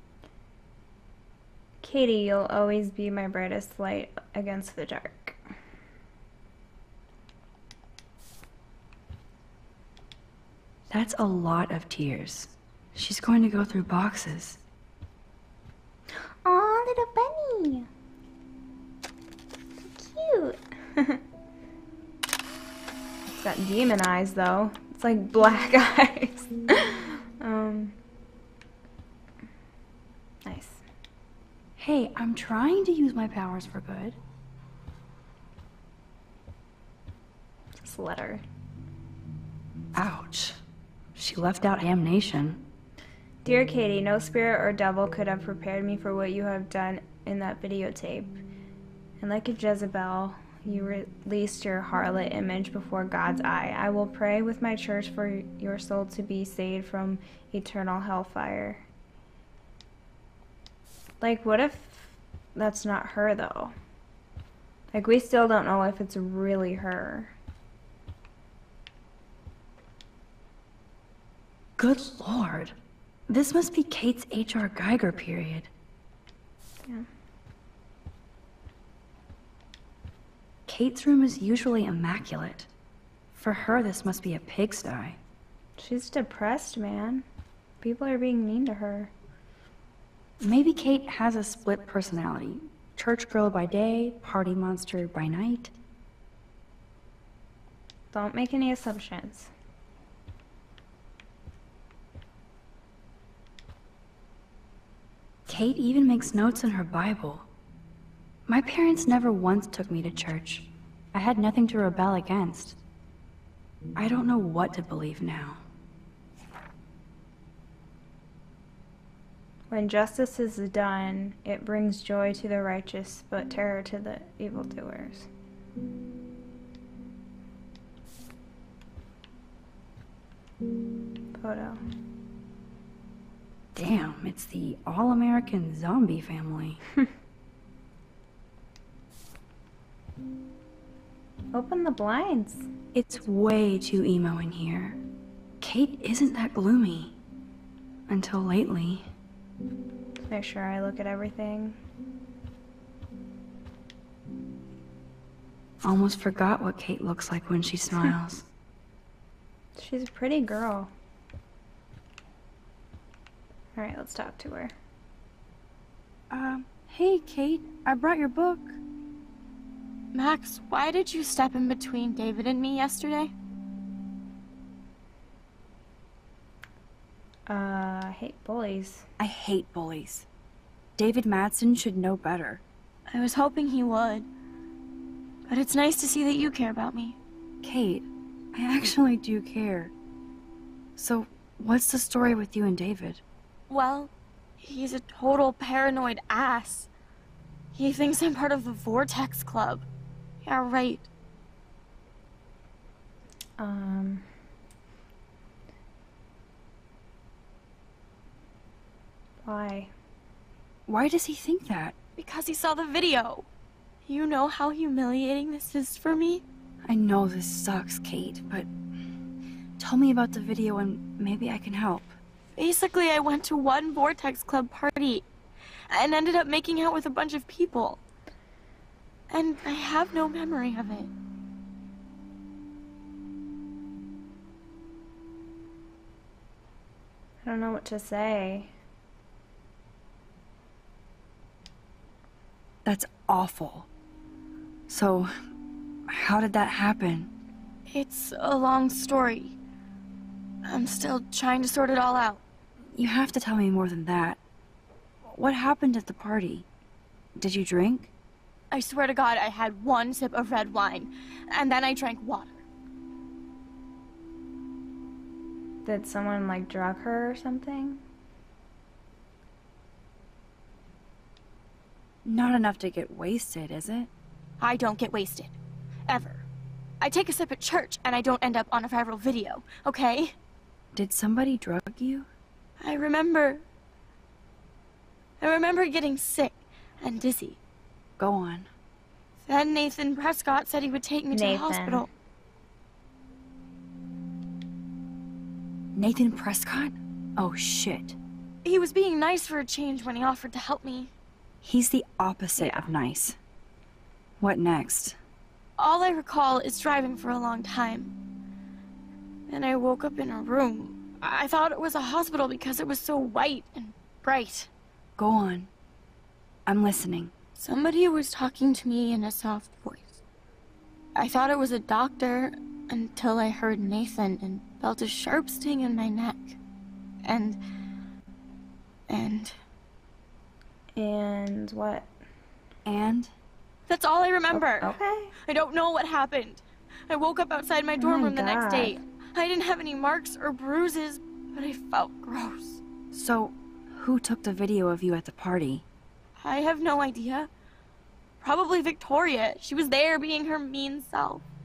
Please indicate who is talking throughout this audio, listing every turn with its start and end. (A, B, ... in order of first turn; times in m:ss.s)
0:01.8-0:05.4 A
0:10.9-0:14.6 B
0:16.4-0:17.9 A
0:19.8-0:21.2 A
0:23.4-0:28.0 A
0:30.4-0:30.8 A
0:31.8-0:34.2 B
0:37.8-0:38.4 A
0:40.0-0:40.6 B
0:41.2-0:42.6 B
0:43.4-0:48.4 A
0:49.2-0:58.8 A
1:01.2-1:03.8 A
1:04.9-1:07.3 A
1:11.8-1:12.8 B
1:13.3-1:15.7 B
1:20.7-1:22.7 B
1:23.3-1:25.2 B
1:25.8-1:27.2 A
1:27.8-1:29.1 A
1:30.4-1:35.7 B
1:38.1-1:39.5 A
1:45.5-1:47.5 B
1:48.5-1:52.8 B
1:54.0-1:55.6 B
1:59.7-2:05.3 A
2:11.3-2:11.8 A
2:13.7-2:16.8 B
2:21.5-2:22.7 A
2:22.9-2:25.0 B
2:25.6-2:27.2 B
2:28.1-2:29.1 B
2:30.2-2:31.8 A
2:35.8-2:38.5 B
2:39.8-2:40.9 A
2:43.8-2:44.7 A
2:46.3-2:48.8 B
2:50.1-2:53.3 C
2:57.5-2:59.1 A
2:59.2-3:00.3 B
3:01.0-3:02.6 B
3:03.1-3:04.3 C
3:05.5-3:07.2 C
3:07.6-3:09.9 B
3:11.0-3:13.2 B
3:13.7-3:16.9 C
3:17.7-3:19.8 C
3:20.4-3:21.1 C
3:23.6-3:24.3 A
3:29.4-3:29.9 A
3:30.9-3:32.0 B
3:32.2-3:33.5 C
3:34.0-3:36.4 C
3:36.9-3:38.7 B
3:39.8-3:42.1 B
3:42.6-3:45.3 C
3:45.9-3:48.0 C
3:49.3-3:51.1 C
3:57.4-3:58.7 A
4:02.8-4:03.9 B
4:04.9-4:05.3 B
4:06.1-4:07.3 B
4:07.9-4:09.6 C
4:10.6-4:12.4 C
4:12.9-4:14.4 B
4:15.2-4:16.7 B
4:17.4-4:18.1 B
4:18.7-4:22.6 C
4:25.8-4:28.0 A
4:32.2-4:34.1 B
4:34.6-4:35.5 C
4:36.1-4:36.4 C
4:37.0-4:40.3 C
4:40.9-4:42.3 B
4:42.8-4:43.6 C
4:45.4-4:47.6 C
4:48.2-4:48.7 B
4:49.5-4:52.1 C
4:51.3-4:52.1 A
4:55.9-4:58.2 B
4:58.6-5:01.1 C
5:01.6-5:03.4 B
5:02.6-5:02.8 A
5:04.4-5:05.2 B
5:05.8-5:08.1 C
5:09.5-5:14.7 C
5:15.2-5:15.7 B
5:16.7-5:17.3 B
5:17.6-5:20.2 C
5:21.2-5:26.6 C
5:27.2-5:27.6 C
5:29.1-5:29.6 C
5:31.0-5:32.1 A
5:32.8-5:33.3 B
5:33.9-5:35.0 C
5:34.6-5:35.4 A
5:35.5-5:42.8 C
5:38.0-5:39.0 A
5:43.1-5:45.8 B
5:46.4-5:47.5 C
5:48.4-5:51.4 C